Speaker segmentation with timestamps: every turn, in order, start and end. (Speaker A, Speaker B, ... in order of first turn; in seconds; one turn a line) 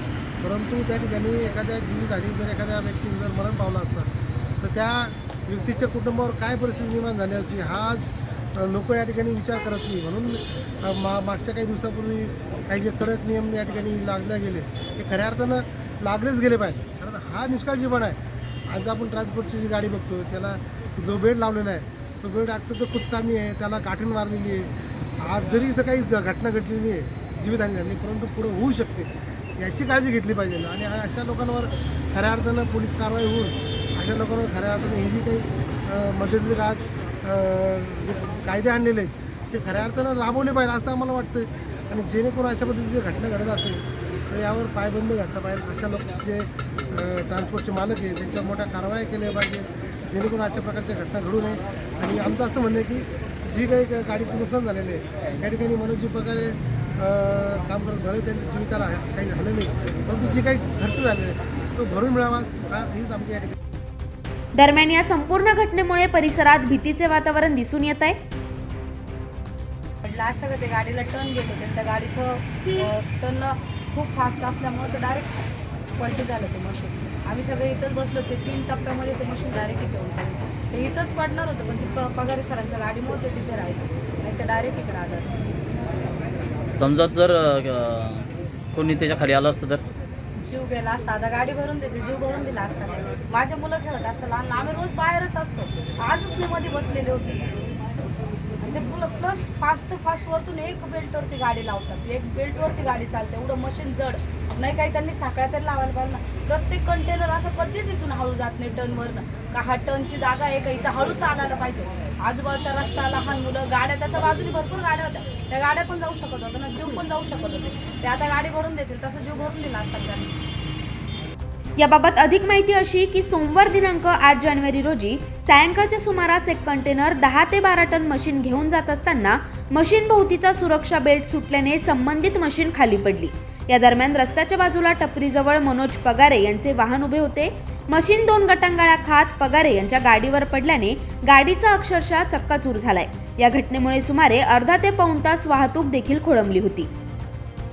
Speaker A: 0.4-4.1
Speaker A: 4.6-63.5
Speaker B: 64.5-68.2
Speaker C: 70.0-75.3
Speaker C: 76.0-85.5
Speaker D: 86.8-89.8
Speaker C: 90.4-97.5
Speaker C: 98.6-120.3
Speaker B: 121.8-146.9